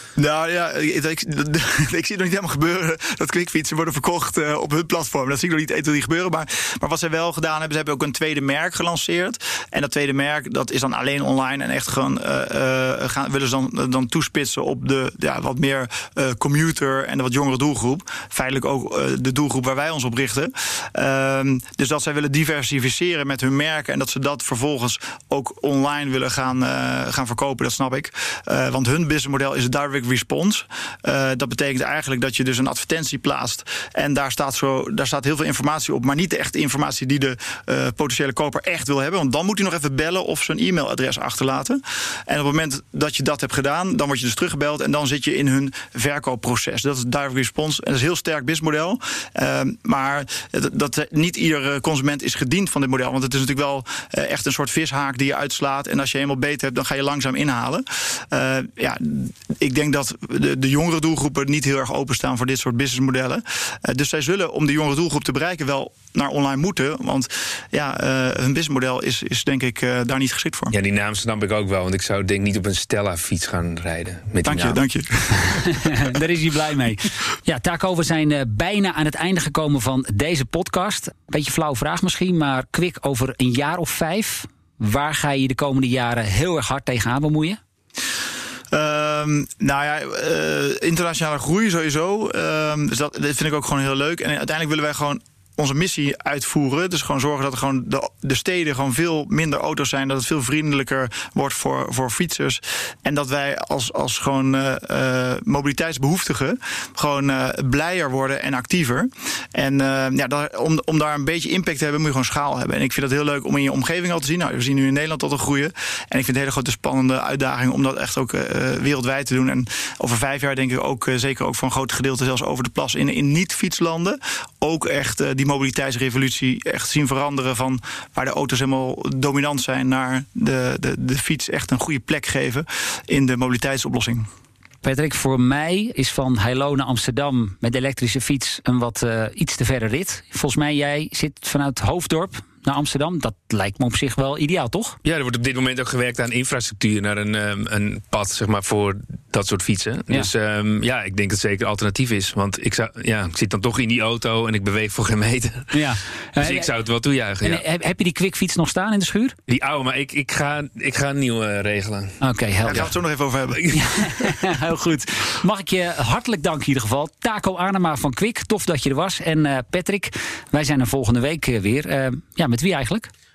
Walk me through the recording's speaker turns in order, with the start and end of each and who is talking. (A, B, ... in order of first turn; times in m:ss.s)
0:00.2-1:10.7 A
1:10.7-1:14.8 B
1:14.4-1:15.5 A
1:15.4-1:27.6 C
1:28.7-2:14.3 A
2:14.8-2:25.0 C
2:25.0-2:37.6 B
2:35.7-2:36.7 C
2:37.4-2:39.4 C
2:39.5-2:42.2 B
2:42.2-2:42.9 C
2:42.7-2:43.8 A
2:43.5-2:44.4 B
2:43.7-2:53.1 C